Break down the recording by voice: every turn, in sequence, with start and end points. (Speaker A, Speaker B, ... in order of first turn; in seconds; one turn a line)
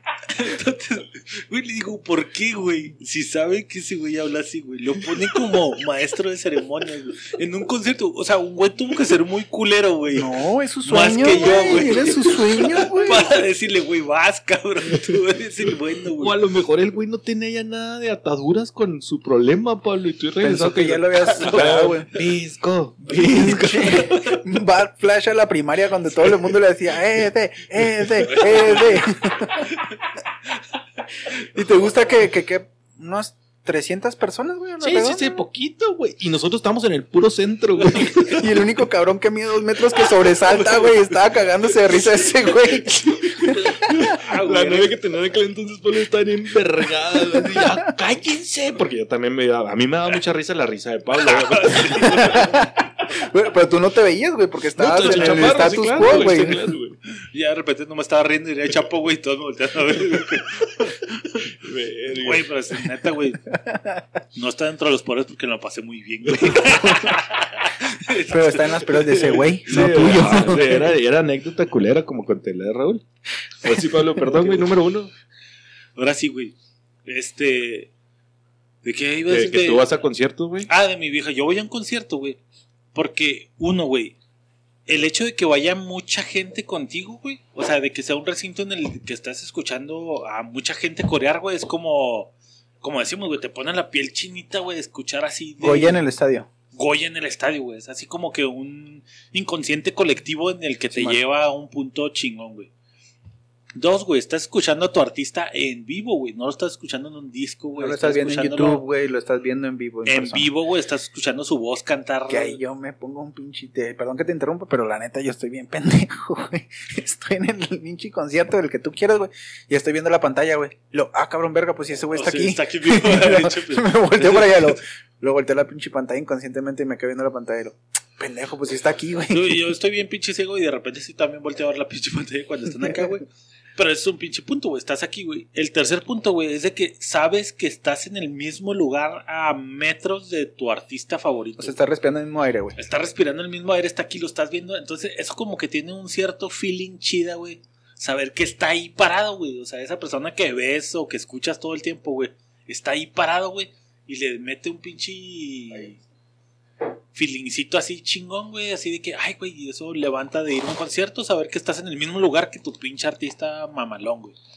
Speaker A: 0.3-10.3
Speaker B: 10.1-13.3
Speaker A: 10.8-16.4
Speaker C: 16.2-24.4
Speaker B: 20.4-22.1
Speaker A: 21.4-21.7
Speaker B: 23.1-29.7
Speaker B: 31.3-35.4
Speaker C: 34.8-38.7
Speaker B: 38.0-44.2
Speaker C: 40.2-41.0
Speaker C: 43.1-52.5
Speaker A: 44.2-44.9
Speaker B: 47.4-47.7
Speaker A: 51.2-52.7
Speaker B: 52.1-56.7
Speaker C: 54.8-57.0
Speaker A: 57.2-61.2
Speaker C: 61.4-62.5
Speaker A: 62.1-63.4
Speaker B: 63.5-64.0
Speaker A: 64.3-69.6
Speaker B: 66.7-67.2
Speaker B: 68.2-71.0
Speaker C: 69.7-73.0
Speaker C: 73.6-75.1
Speaker A: 76.0-76.5
Speaker A: 77.1-77.9
Speaker A: 78.8-79.9
Speaker C: 79.3-80.7
Speaker A: 80.7-82.4
Speaker A: 82.9-84.2
Speaker A: 84.9-96.0
Speaker B: 95.6-96.5
Speaker A: 96.7-102.7
Speaker B: 100.9-101.2
Speaker A: 103.8-108.8
Speaker B: 107.8-110.5
Speaker A: 110.1-112.6
Speaker B: 112.3-129.7
Speaker A: 122.1-124.8
Speaker A: 129.3-141.8
Speaker B: 141.6-142.8
Speaker A: 142.8-156.0
Speaker A: 157.2-164.4